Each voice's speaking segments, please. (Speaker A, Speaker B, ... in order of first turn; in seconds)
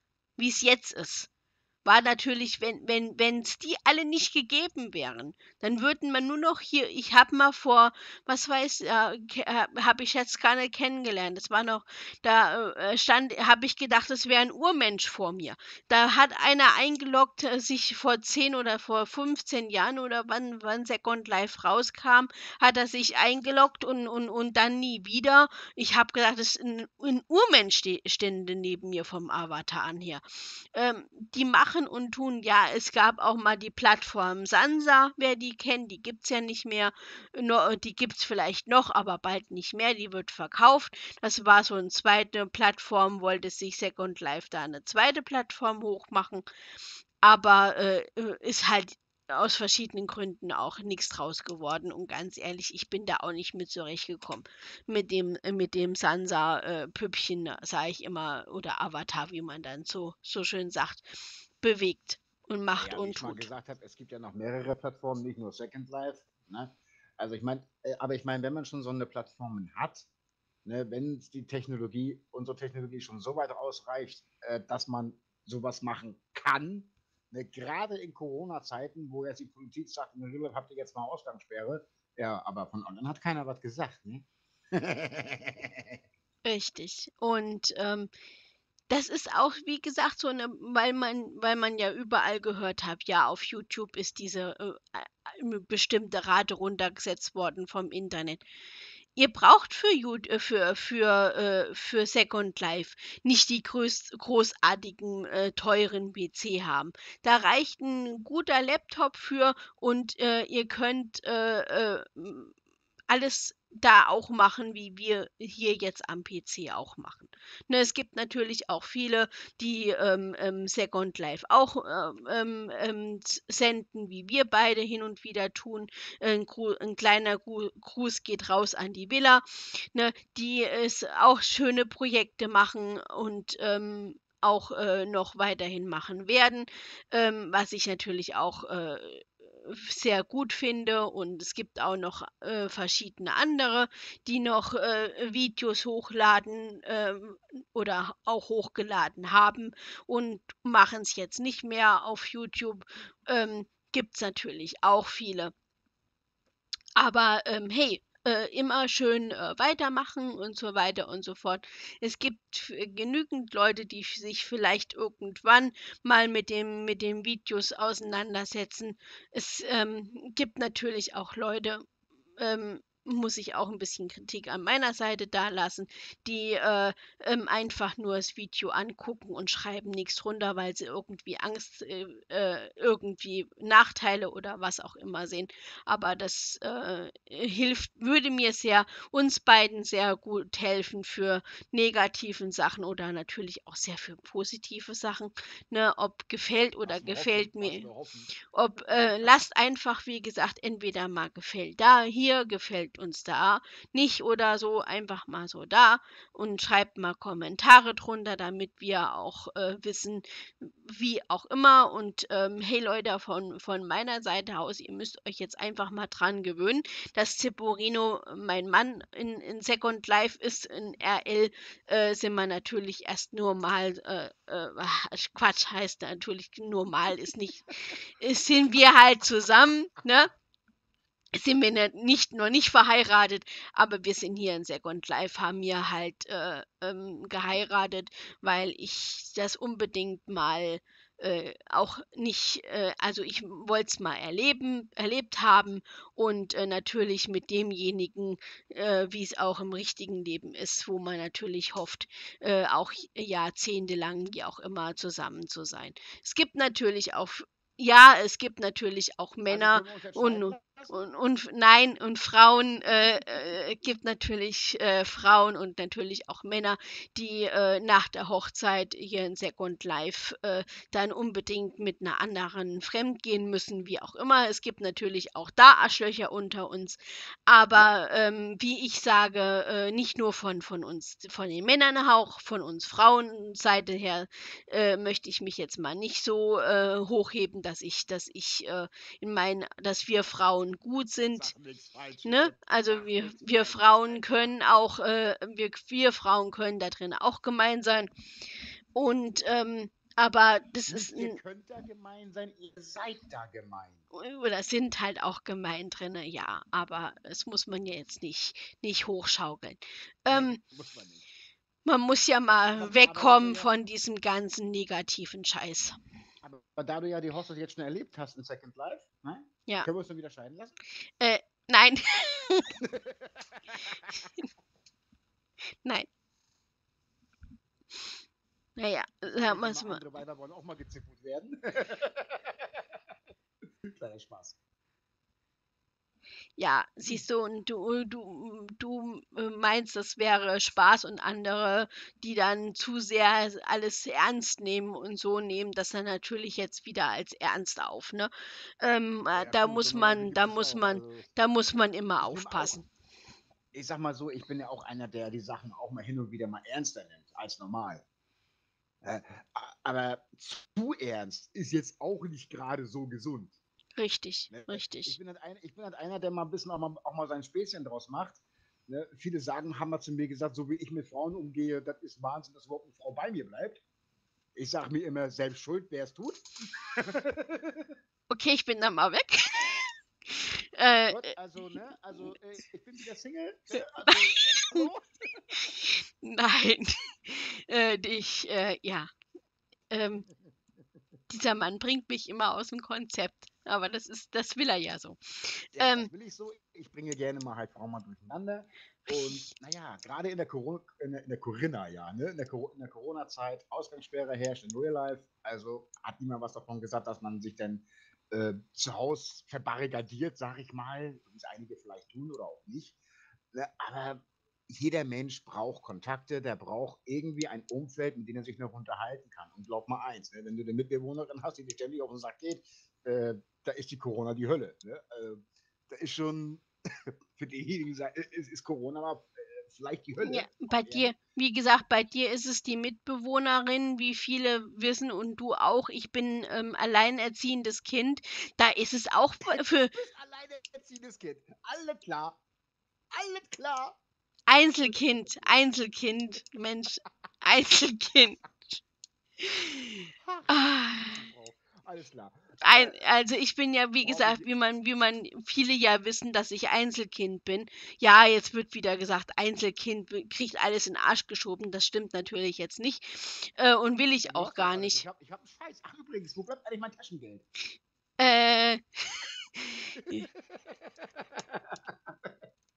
Speaker A: 0.4-1.3, 1.9-46.5, 47.2-63.5, 86.5-88.1, 88.9-98.4, 99.2-112.5, 113.1-155.5, 157.0-171.8, 172.4-197.9, 198.5-230.3, 231.3-291.5, 292.2-298.1, 298.9-301.4, 304.1-310.6, 311.9-316.0, 321.2-322.7, 324.1-324.4, 328.8-330.0, 336.6-352.9, 364.0-365.2, 378.3-381.3, 384.1-384.9, 385.6-389.1, 389.9-390.3, 391.3-396.1, 399.1-399.5, 430.2-439.9, 444.5-448.8, 449.4-451.3, 452.6-465.0, 468.2-470.3
Speaker B: 62.8-70.1, 70.7-86.0, 196.8-198.3, 198.8-199.4, 259.5-260.9, 291.2-294.6, 300.9-304.0, 310.3-311.2, 312.7-313.7, 316.4-320.8, 322.8-324.3, 329.4-332.9, 333.8-334.6, 349.3-351.3, 352.2-352.8, 353.7-358.0, 359.0-363.6, 364.5-373.8, 374.6-377.9, 381.1-385.4, 395.8-413.0, 413.5-426.7, 427.4-431.1, 439.5-442.4, 443.1-444.0, 444.8-445.6, 450.2-453.0, 454.0-454.5, 464.2-467.4, 470.0-472.4